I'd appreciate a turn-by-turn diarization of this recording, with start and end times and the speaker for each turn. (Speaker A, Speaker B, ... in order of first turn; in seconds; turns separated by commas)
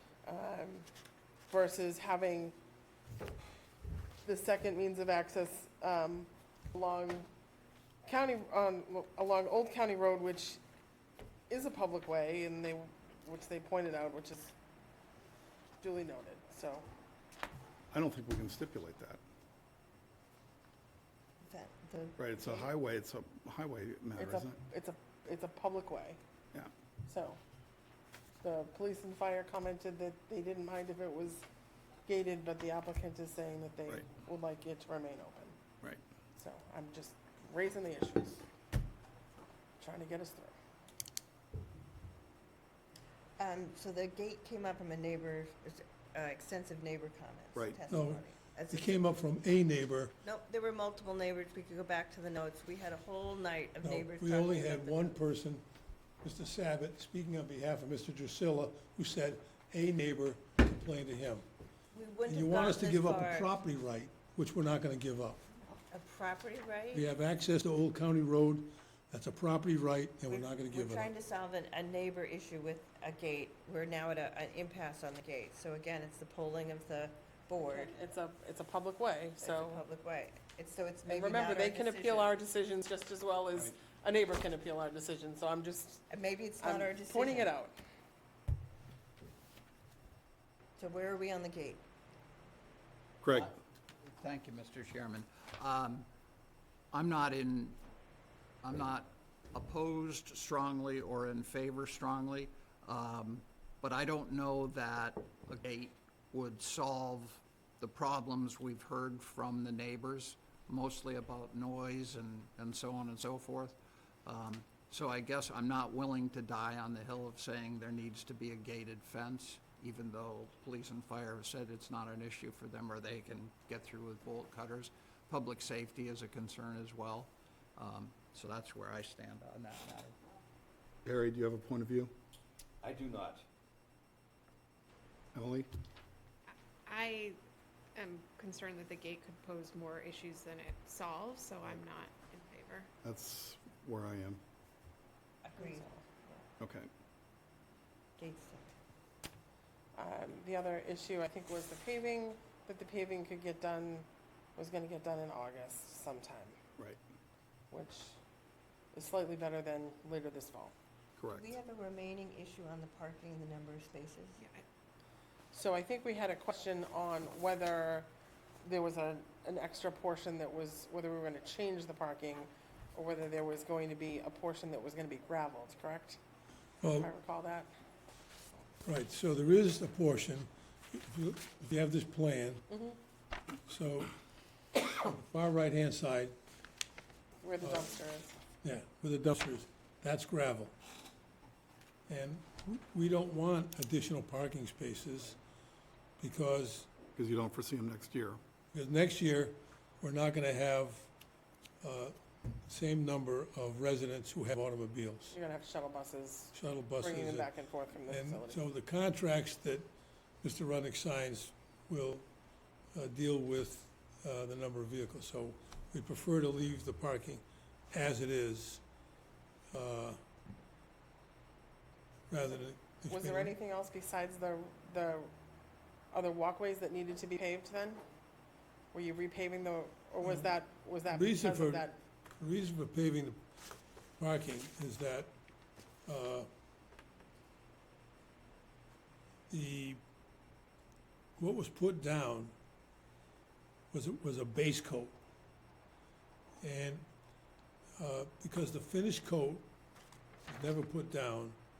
Speaker A: 0.2-0.9, Speaker A: 1.5-2.5, Speaker A: 4.2-7.3, Speaker A: 8.0-10.6, Speaker A: 11.5-14.5, Speaker A: 15.8-16.9, Speaker B: 17.9-19.2, Speaker C: 21.4-22.7, Speaker B: 22.2-24.6, Speaker A: 24.2-26.2, Speaker A: 27.1-27.4, Speaker A: 28.4-31.4, Speaker A: 32.0-35.6, Speaker A: 36.4-38.4, Speaker A: 39.8-40.5, Speaker C: 43.4-48.9, Speaker B: 47.5-47.8, Speaker D: 47.9-50.1, Speaker C: 50.2-55.1, Speaker D: 53.8-55.6, Speaker D: 56.2-61.4, Speaker C: 61.9-63.5, Speaker D: 62.2-65.4, Speaker C: 65.9-67.1, Speaker D: 66.9-71.1, Speaker C: 70.3-78.0, Speaker A: 77.6-79.8, Speaker C: 79.4-82.3, Speaker A: 81.0-86.0, Speaker C: 86.1-87.5, Speaker A: 86.6-87.8, Speaker C: 90.8-91.8, Speaker B: 93.2-93.5, Speaker E: 93.3-96.1, Speaker E: 96.9-97.8, Speaker E: 98.6-130.2, Speaker B: 131.0-132.1, Speaker B: 135.3-135.7, Speaker F: 136.8-137.4, Speaker F: 137.9-142.9, Speaker B: 143.0-144.4, Speaker C: 145.4-146.2, Speaker A: 145.6-145.9, Speaker B: 146.6-146.9, Speaker C: 148.2-148.7, Speaker A: 149.9-156.6, Speaker A: 157.7-158.2, Speaker A: 158.9-160.7, Speaker B: 161.2-161.5, Speaker C: 161.3-164.4, Speaker A: 165.5-168.1, Speaker A: 168.6-176.2, Speaker D: 176.8-177.1, Speaker A: 176.9-177.7, Speaker D: 178.8-182.7, Speaker A: 182.7-183.0, Speaker D: 183.7-184.1, Speaker D: 184.9-186.3, Speaker A: 187.4-188.3, Speaker D: 187.6-187.8, Speaker D: 188.6-190.7, Speaker D: 192.1-195.4, Speaker D: 196.2-196.9, Speaker B: 197.1-198.4, Speaker D: 198.7-201.1, Speaker D: 201.8-202.1, Speaker D: 202.7-205.4, Speaker A: 205.3-208.6, Speaker D: 206.5-207.5, Speaker D: 208.1-209.9, Speaker D: 210.4-212.2, Speaker D: 212.9-218.8, Speaker D: 219.7-220.2, Speaker D: 222.3-223.6, Speaker A: 223.1-225.3, Speaker A: 226.1-228.0, Speaker A: 228.9-232.0, Speaker D: 230.2-230.5, Speaker D: 231.1-233.4, Speaker D: 234.2-235.3, Speaker D: 236.1-236.5, Speaker D: 239.5-240.0, Speaker D: 241.4-242.5, Speaker D: 243.9-245.2, Speaker D: 246.6-247.0, Speaker D: 248.0-249.7, Speaker D: 250.5-251.6